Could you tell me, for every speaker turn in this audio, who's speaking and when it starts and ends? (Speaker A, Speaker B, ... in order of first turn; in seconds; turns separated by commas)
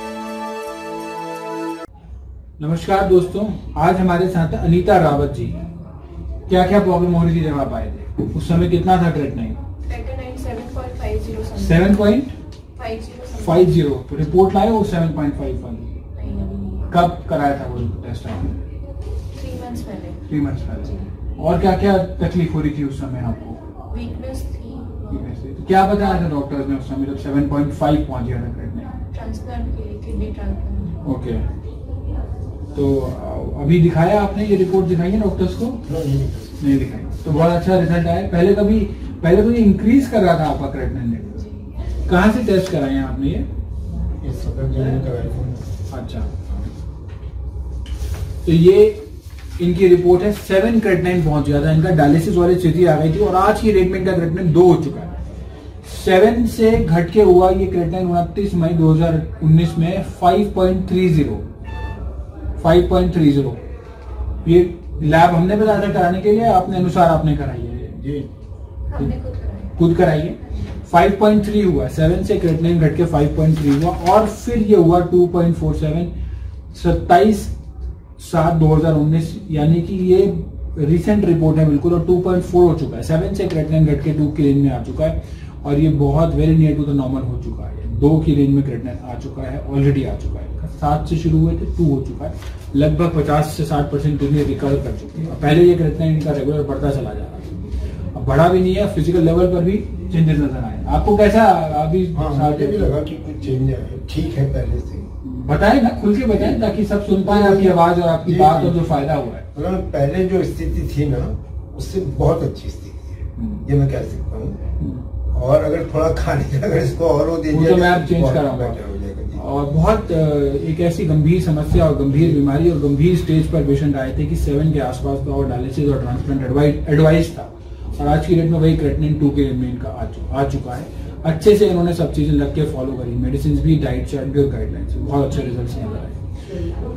Speaker A: 2.6-5.6, Speaker A: 6.5-9.6, Speaker B: 9.8-12.1, Speaker A: 11.6-12.4, Speaker B: 12.8-13.8, Speaker A: 13.3-16.0, Speaker B: 16.1-17.0, Speaker A: 16.9-18.6, Speaker B: 19.4-21.1, Speaker A: 20.3-23.6, Speaker B: 23.9-25.2, Speaker A: 25.1-29.0, Speaker B: 29.1-31.0, Speaker A: 31.0-31.5, Speaker A: 32.8-35.9, Speaker C: 35.9-36.6, Speaker A: 36.6-41.4, Speaker B: 41.4-41.7, Speaker A: 42.0-43.5, Speaker C: 44.2-45.7, Speaker A: 45.9-46.4, Speaker A: 48.4-55.2, Speaker A: 55.8-61.5, Speaker A: 62.6-63.6, Speaker A: 64.4-68.3, Speaker B: 68.9-69.8, Speaker A: 69.8-76.1, Speaker A: 76.7-77.5, Speaker A: 78.2-102.9, Speaker C: 102.1-105.1, Speaker A: 105.2-109.5, Speaker C: 106.3-108.8, Speaker C: 109.5-114.6, Speaker A: 113.4-113.6, Speaker A: 114.8-115.1, Speaker C: 115.3-119.5, Speaker A: 117.5-118.8, Speaker A: 119.4-136.2